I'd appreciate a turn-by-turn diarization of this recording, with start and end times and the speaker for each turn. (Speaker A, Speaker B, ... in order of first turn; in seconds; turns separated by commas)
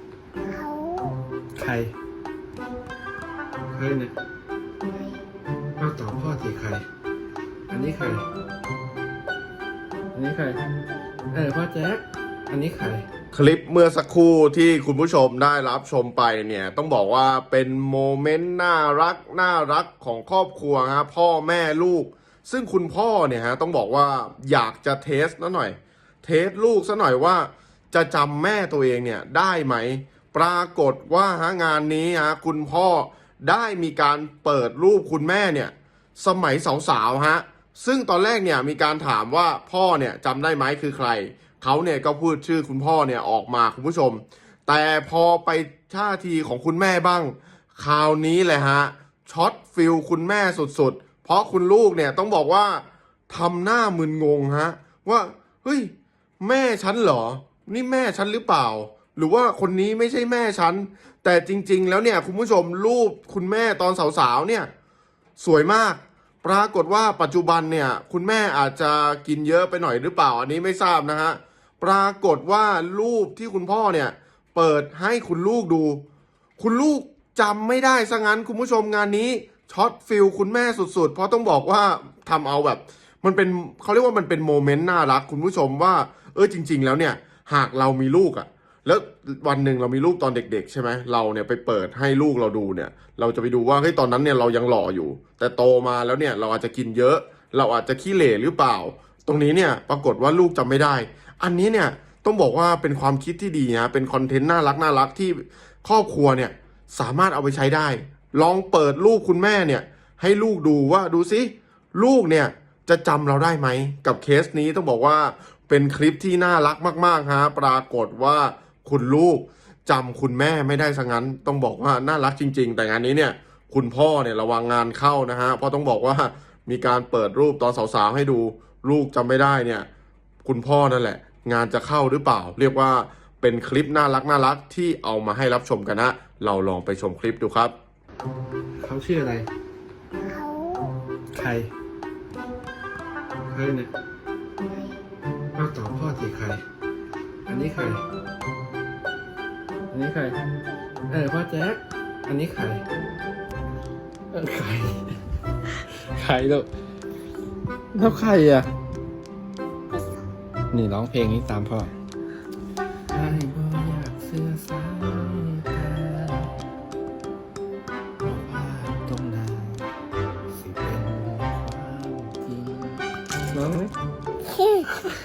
Speaker A: 0.4-1.1, Speaker B: 1.6-1.9, Speaker B: 3.7-4.1, Speaker A: 4.9-5.2, Speaker B: 5.8-6.8, Speaker B: 7.7-8.2, Speaker B: 10.1-10.6, Speaker B: 11.3-13.1, Speaker C: 13.3-64.7, Speaker C: 65.4-76.0, Speaker C: 76.6-129.9, Speaker C: 130.4-137.7, Speaker B: 138.8-139.5, Speaker A: 140.2-140.9, Speaker B: 141.3-141.7, Speaker B: 143.4-143.9, Speaker B: 145.5-146.6, Speaker B: 147.4-148.0, Speaker B: 149.9-150.4, Speaker B: 151.1-152.8, Speaker B: 154.3-155.2, Speaker B: 155.9-156.7, Speaker B: 157.9-158.7, Speaker A: 159.9-160.2, Speaker B: 160.7-161.9, Speaker B: 163.1-166.5, Speaker B: 168.2-169.8, Speaker B: 170.5-173.9, Speaker B: 174.6-174.9